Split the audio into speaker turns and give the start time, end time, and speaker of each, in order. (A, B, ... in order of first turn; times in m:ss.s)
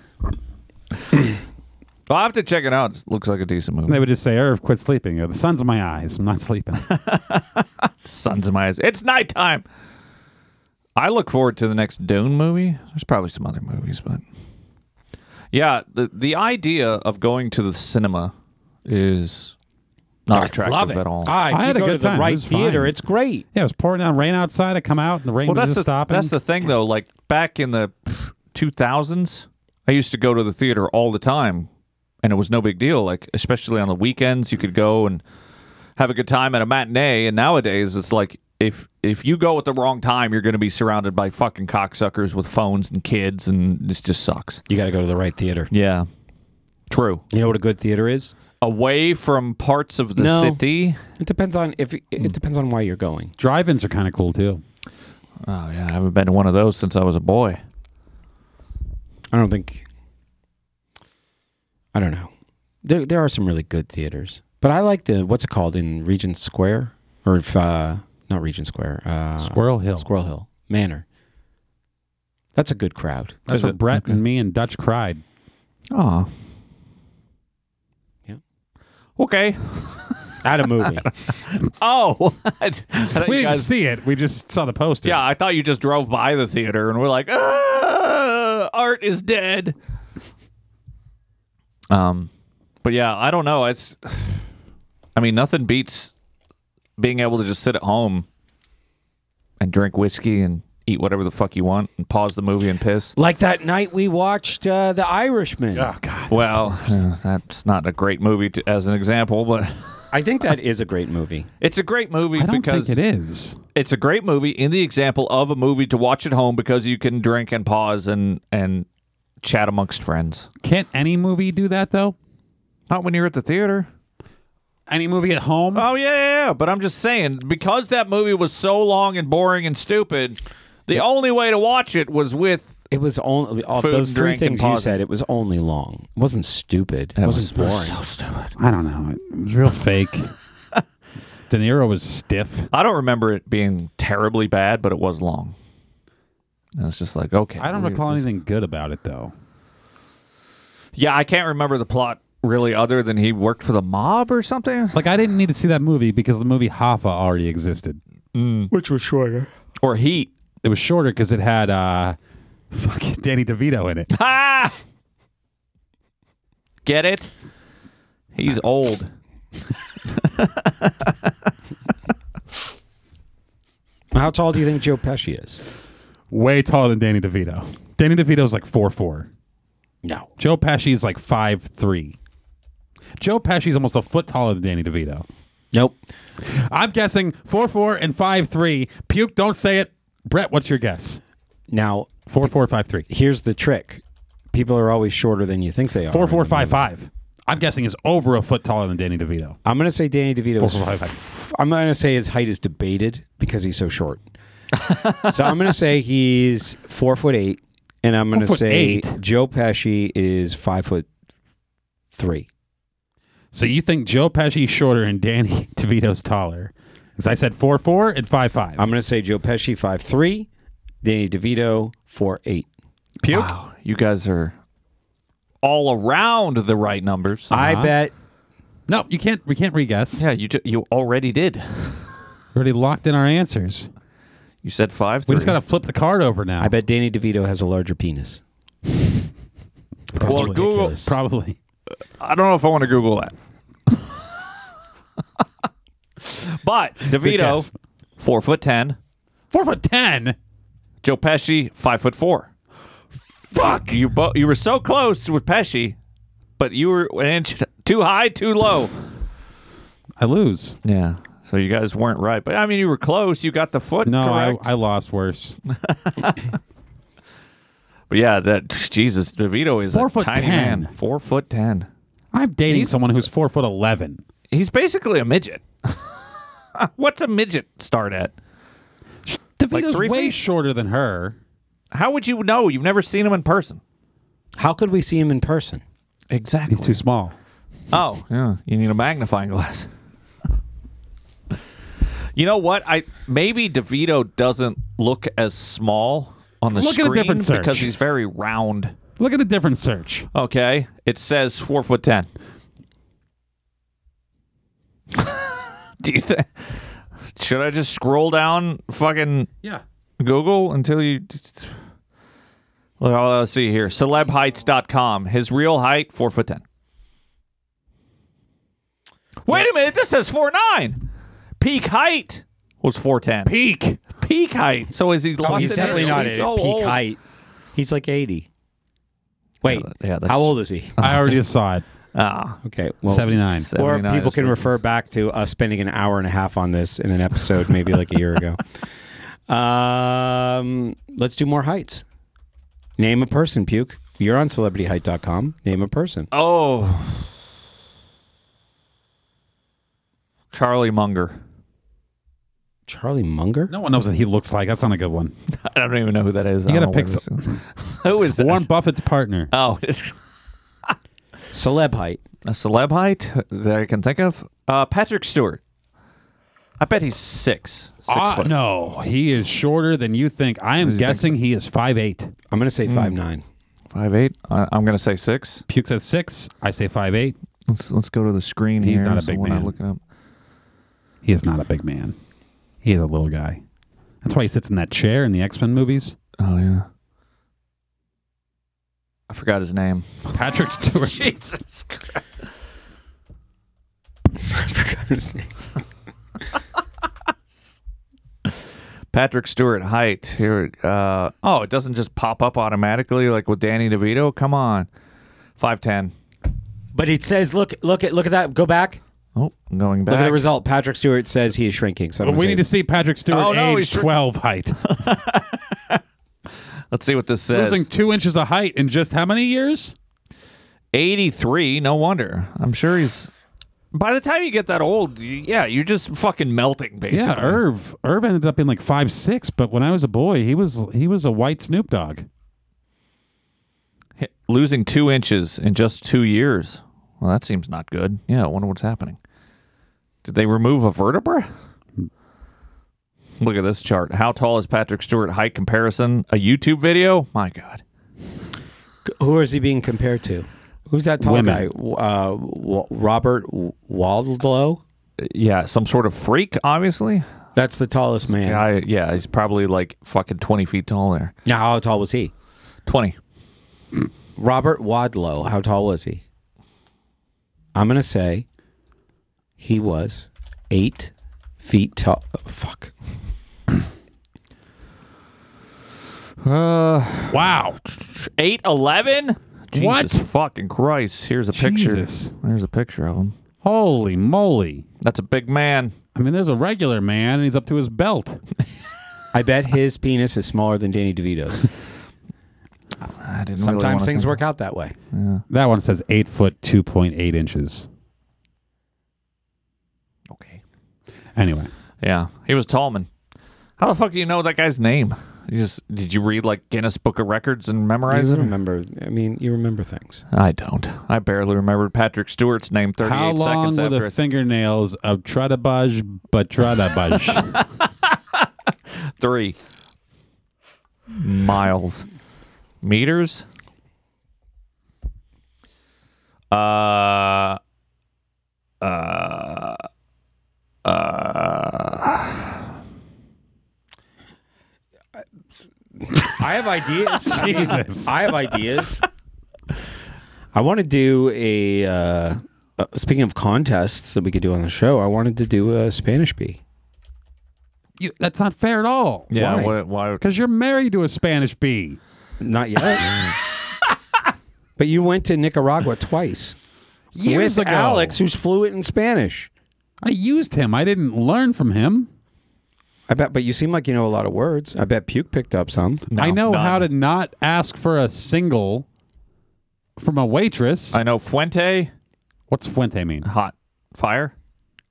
0:02.1-0:04.1 A
0:03.9-0:06.8 B
0:06.9-0:09.6 A
0:11.0-0:14.2 A
0:15.5-0:18.3 A
0:18.9-0:19.6 A
0:20.3-0:21.3 A
0:20.3-0:23.4 C
0:21.4-0:23.0 B
0:23.5-0:26.3 B
0:25.4-0:31.7 A
0:32.2-0:35.2 A
0:36.0-0:44.6 A
0:44.7-0:45.7 C
0:45.7-0:46.1 A
0:46.9-0:47.2 A
0:47.3-0:48.4 C
0:48.6-0:51.0 A
0:50.2-0:50.6 C
0:51.2-0:53.3 C
0:53.4-0:54.6 B
0:55.4-0:57.6 A
0:59.3-0:59.8 C
1:01.9-1:02.3 C
1:02.8-1:11.0 C
1:09.4-1:10.1 B
1:12.6-1:13.4 C
1:13.5-1:15.2 B
1:13.5-1:14.2 A
1:15.9-1:16.3 A
1:19.2-1:20.2 A
1:20.4-1:21.1 C
1:21.0-1:23.7 A
1:23.2-1:25.2 B
1:25.0-1:29.8 A
1:31.9-1:32.3 A
1:32.8-1:34.4 A
1:35.2-1:36.1 A
1:37.0-1:38.3 A
1:39.6-1:43.1 A
1:43.2-1:45.9 C
1:45.8-1:47.0 B
1:46.3-1:50.0 A
1:50.1-1:51.5 C
1:51.6-1:53.0 A
1:52.4-1:53.6 B
1:53.7-1:58.9 A
1:59.4-2:00.5 A
2:00.6-2:02.2 B
2:02.9-2:03.9 A
2:04.9-2:05.9 B
2:05.7-2:12.7 A
2:12.9-2:18.0 C
2:13.7-2:15.0 A
2:17.2-2:18.5 A
2:18.6-2:20.3 B
2:21.5-2:22.7 B
2:22.7-2:25.6 A
2:26.8-2:28.3 A
2:27.6-2:29.3 B
2:31.0-2:35.0 A
2:34.9-2:38.0 B
2:38.3-2:38.7 A
2:38.7-2:39.5 C
2:39.8-2:40.3 A
2:40.6-2:42.2 B
2:42.7-2:44.1 B
2:44.1-2:44.7 A
2:46.8-2:47.3 A
2:48.3-2:49.1 A
2:50.2-2:51.2 A
2:54.1-2:55.6 C
2:56.3-2:59.3 B
3:00.0-3:00.3 C
3:00.4-3:02.2 B
3:03.2-3:05.3 B
3:05.7-3:06.0 C
3:06.5-3:11.2 B
3:11.7-3:12.1 C
3:12.2-3:13.1 B
3:13.1-3:16.8 C
3:16.1-3:19.6 B
3:19.6-3:24.3 C
3:20.6-3:21.2 B
3:24.8-3:25.2 A
3:25.2-3:31.1 C
3:28.3-3:29.2 B
3:32.1-3:32.5 C
3:33.5-3:38.9 B
3:38.8-3:40.5 C
3:41.0-3:42.7 C
3:43.2-3:43.5 B
3:43.3-3:44.6 A
3:45.6-3:47.5 A
3:47.5-3:47.9 B
3:47.5-3:48.1 C
3:48.9-3:50.2 B
3:50.2-3:52.1 A
3:52.5-3:53.9 B
3:54.6-3:55.6 A
3:55.3-3:56.7 B
3:56.6-3:58.4 C
4:00.1-4:01.6 B
4:00.2-4:00.5 C
4:00.2-4:01.2 A
4:02.2-4:03.3 A
4:06.2-4:09.0 A
4:07.1-4:07.7 B
4:09.5-4:10.4 B
4:11.0-4:12.5 A
4:13.5-4:13.8 B
4:13.6-4:16.0 A
4:16.6-4:18.9 A
4:20.2-4:20.8 B
4:20.8-4:24.7 A
4:24.0-4:25.6 B
4:26.1-4:26.4 A
4:28.1-4:31.9 A
4:29.9-4:30.9 B
4:32.3-4:34.2 B
4:32.7-4:33.2 A
4:34.5-4:36.2 A
4:36.8-4:38.3 A
4:39.3-4:41.4 B
4:39.7-4:40.4 A
4:41.9-4:43.8 A
4:44.6-4:45.8 C
4:46.3-4:47.0 A
4:46.7-4:47.4 B
4:47.9-4:49.9 A
4:52.4-4:59.0 A
4:56.7-4:57.9 B
4:59.2-5:00.3 B
5:00.3-5:02.3 A
5:05.2-5:05.5 A
5:06.0-5:09.5 A
5:10.2-5:11.7 A
5:13.0-5:16.6 A
5:19.4-5:21.0 A
5:21.6-5:23.6 A
5:23.4-5:24.0 B
5:24.1-5:27.0 A
5:25.4-5:26.4 B
5:25.4-5:27.2 C
5:27.7-5:28.5 C
5:29.6-5:31.0 C
5:29.6-5:31.4 A
5:31.0-5:31.8 B
5:32.2-5:32.6 A
5:32.6-5:38.6 C
5:33.1-5:33.7 B
5:33.6-5:34.8 A
5:39.5-5:42.0 C
5:43.0-5:46.3 C
5:46.3-5:47.2 A
5:50.5-5:51.4 A
5:52.9-5:53.7 C
5:53.7-5:55.3 B
5:55.5-5:58.7 A
5:56.7-5:57.6 B
5:58.3-5:59.5 B
5:59.5-6:00.2 A
6:01.5-6:02.2 C
6:02.4-6:05.6 A
6:06.8-6:08.6 A
6:08.1-6:12.3 B
6:10.8-6:11.4 A
6:12.5-6:13.4 C
6:12.9-6:13.2 A
6:13.9-6:15.6 A
6:15.7-6:17.4 B
6:17.7-6:20.0 A
6:18.8-6:19.7 B
6:21.2-6:22.2 B
6:22.8-6:23.6 B
6:24.2-6:26.2 B
6:26.4-6:26.9 A
6:29.3-6:30.1 A
6:30.3-6:31.4 B
6:30.8-6:32.2 A
6:34.4-6:35.5 C
6:39.1-6:44.9 A
6:45.6-6:46.1 A
6:46.9-6:49.0 C
6:49.4-6:50.4 A
6:50.1-6:52.7 C
6:52.2-6:55.0 B
6:53.3-6:54.2 A
6:54.9-6:56.0 A
6:56.9-6:57.9 A
6:57.5-7:00.0 B
7:00.9-7:03.3 A
7:03.9-7:07.6 A
7:07.1-7:12.3 B
7:14.2-7:19.2 A
7:20.2-7:21.5 A
7:23.4-7:27.8 A
7:29.0-7:34.8 C
7:31.2-7:31.7 B
7:35.2-7:37.2 A
7:37.6-7:38.7 C
7:38.4-7:41.3 A
7:41.4-7:42.3 C
7:42.9-7:43.2 A
7:44.4-7:46.2 C
7:47.7-7:48.4 C
7:49.6-7:52.9 C
7:56.4-8:03.4 A
7:57.3-7:57.8 B
7:59.7-8:00.2 B
8:01.5-8:02.3 B
8:03.6-8:04.8 B
8:05.0-8:06.0 A
8:06.2-8:08.4 B
8:09.3-8:11.7 C
8:13.2-8:14.4 A
8:13.6-8:15.0 C
8:15.1-8:15.4 A
8:15.5-8:17.9 B
8:20.3-8:20.6 A
8:21.4-8:21.7 B
8:22.0-8:23.1 A
8:23.8-8:28.5 A
8:28.1-8:30.2 C
8:30.3-8:34.2 A
8:33.0-8:37.6 B
8:37.3-8:38.4 A
8:39.2-8:39.6 A
8:41.1-8:42.0 A
8:42.8-8:43.4 A
8:46.5-8:47.6 A
8:48.8-8:49.8 A
8:50.8-8:52.5 A
8:56.0-8:59.0 C
8:57.3-8:58.2 B
9:00.5-9:06.6 C
9:08.0-9:12.0 B
9:09.3-9:10.2 A
9:09.4-9:09.7 C
9:12.4-9:13.3 C
9:14.8-9:16.6 C
9:17.1-9:18.2 B
9:17.2-9:19.5 C
9:20.0-9:22.1 B
9:23.1-9:26.0 C
9:26.1-9:26.9 A
9:26.1-9:28.8 B
9:30.0-9:31.0 B
9:30.9-9:31.9 A
9:32.5-9:33.3 B
9:33.2-9:34.3 A